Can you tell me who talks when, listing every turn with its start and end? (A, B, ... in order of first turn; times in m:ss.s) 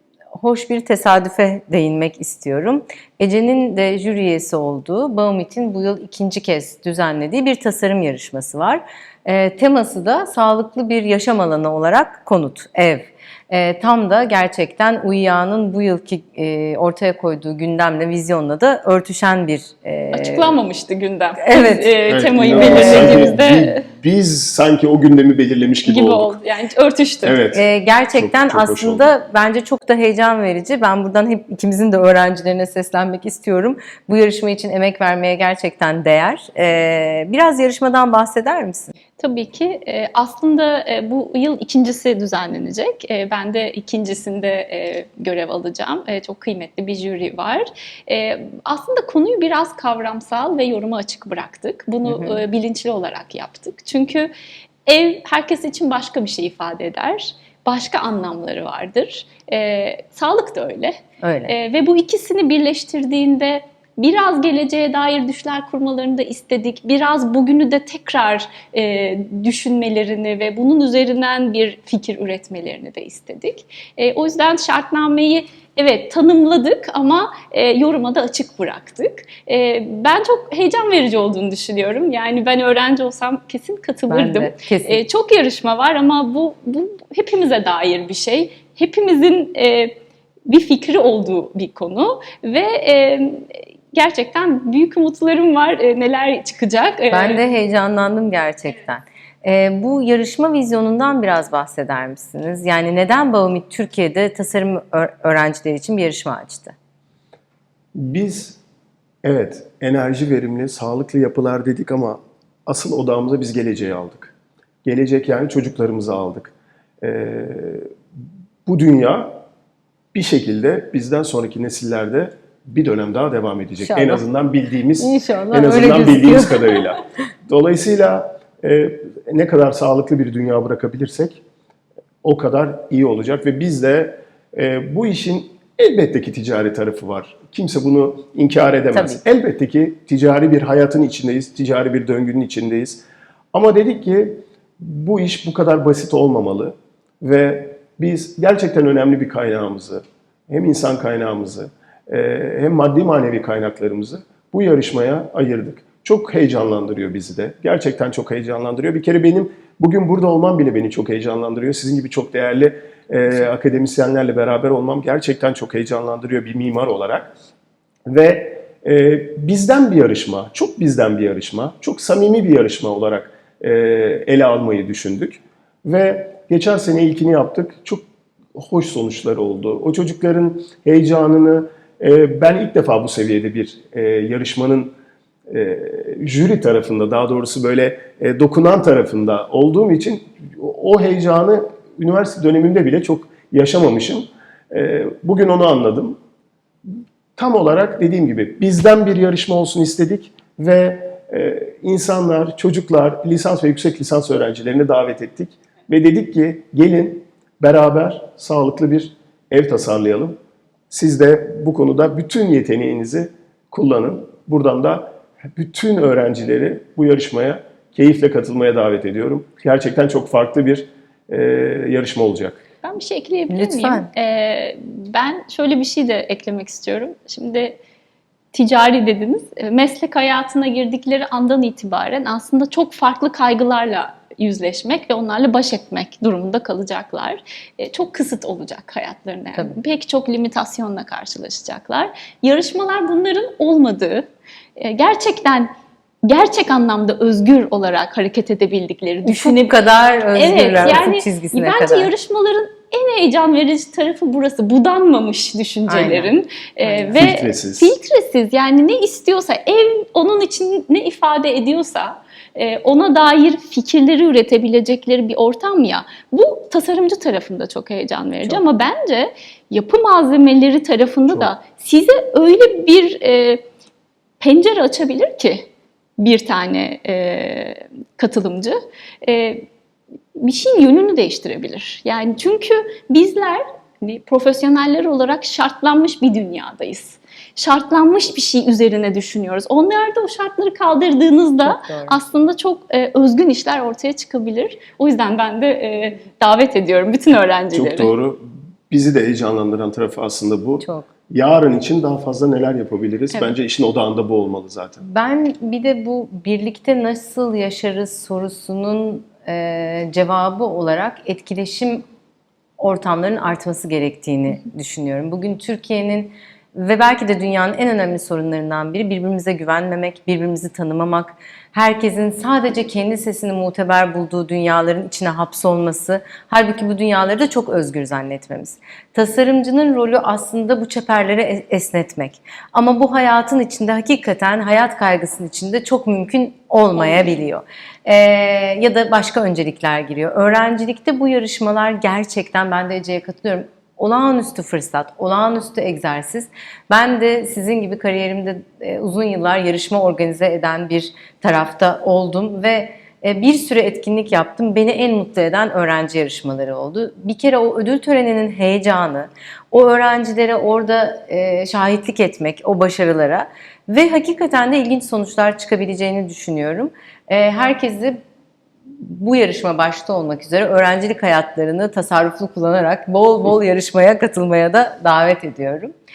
0:00.3-0:20.6 A
0:20.1-0:23.8 B
0:21.4-0:23.3 A
0:22.1-0:26.4 C
0:25.8-0:27.4 B
0:27.2-0:29.1 C
0:27.5-0:38.9 A
0:39.2-0:54.3 B
0:52.1-0:52.4 A
0:54.8-1:01.0 B
1:01.2-1:01.5 A
1:01.5-1:37.4 B
1:24.1-1:25.0 A
1:37.1-1:46.7 A
1:47.9-1:48.6 C
1:49.2-1:57.9 C
1:58.6-1:59.4 C
2:00.1-2:11.4 C
2:03.8-2:04.2 A
2:05.0-2:06.7 A
2:12.2-2:47.3 C
2:18.9-2:19.2 A
2:48.1-3:04.9 C
3:05.5-3:16.2 C
3:16.9-3:30.4 C
3:30.9-3:42.6 C
3:42.8-3:47.8 B
3:43.5-3:44.1 A
3:48.5-4:05.7 B
4:06.2-4:09.8 B
4:09.2-4:12.1 A
4:10.3-4:33.6 B
4:10.7-4:11.0 C
4:15.9-4:17.2 A
4:17.2-4:17.9 C
4:34.4-4:39.7 B
4:40.4-4:58.1 B
4:51.6-4:52.2 A
4:57.7-5:05.0 C
5:00.8-5:01.1 A
5:05.0-5:12.0 A
5:12.8-6:08.2 A
6:09.0-6:15.9 A